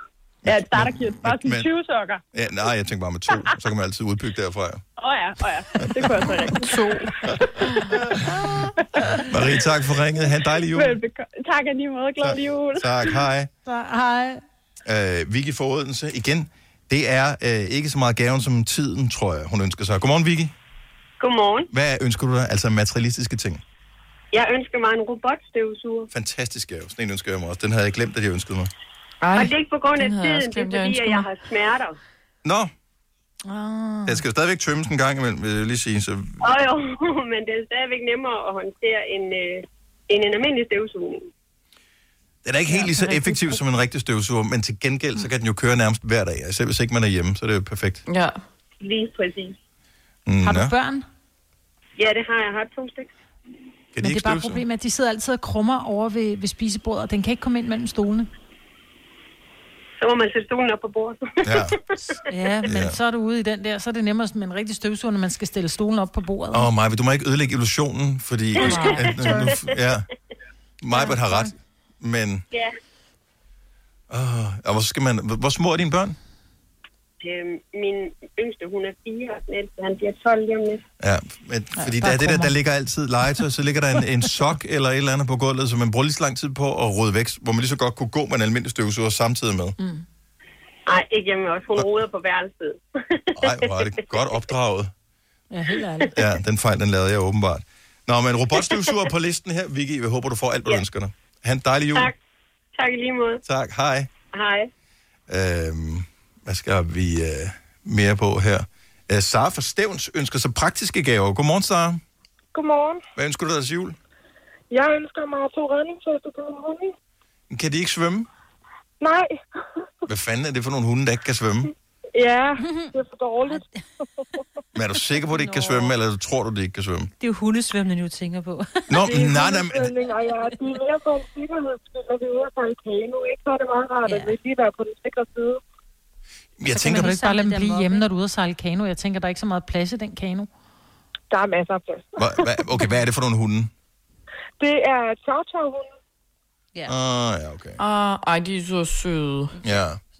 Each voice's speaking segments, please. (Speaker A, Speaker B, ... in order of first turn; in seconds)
Speaker A: 0.4-1.7, 2.3-4.8, 5.8-6.5, 7.2-8.5, 9.3-11.0, 12.2-13.5, 14.8-20.5, 21.7-23.6, 26.1-28.7, 32.4-32.7, 34.0-36.4, 42.4-48.0, 50.2-50.7, 53.9-54.6, 61.4-61.8, 62.6-63.0, 66.5-70.0, 70.8-72.4, 74.1-76.2, 81.0-89.8, 93.4-94.9, 96.2-102.1, 103.4-104.1, 105.3-112.0, 113.2-114.0, 117.5-118.3, 120.1-121.7, 124.7-127.1, 128.9-129.9, 136.6-137.1, 142.2-143.7, 146.9-147.8, 149.6-150.0
Speaker B: 0.5-2.2, 5.0-8.1, 8.6-9.2, 10.7-12.9
Speaker C: 6.6-7.0, 29.2-31.3, 48.1-48.4, 147.8-149.6
Speaker D: 13.7-14.4, 33.5-34.2, 50.4-51.0, 54.0-58.3, 62.2-66.7, 68.7-68.9, 70.9-71.5, 81.8-82.5, 89.8-90.0, 95.5-96.2, 136.8-140.5
Speaker E: 21.2-21.7, 24.3-26.1, 29.3-31.9, 36.4-41.3, 48.8-49.5, 52.0-53.1, 60.0-62.1, 68.6-69.7, 77.2-80.8, 90.8-93.9, 95.8-96.1, 102.7-103.4, 104.3-104.7
Speaker F: 112.5-113.0, 114.7-116.9, 119.0-119.3, 122.1-123.6, 128.9-135.6, 141.3-142.4, 144.6-145.9
Speaker G: 122.6-122.9, 123.4-123.8, 125.2-125.9, 127.2-129.2, 134.0-134.3, 136.7-138.0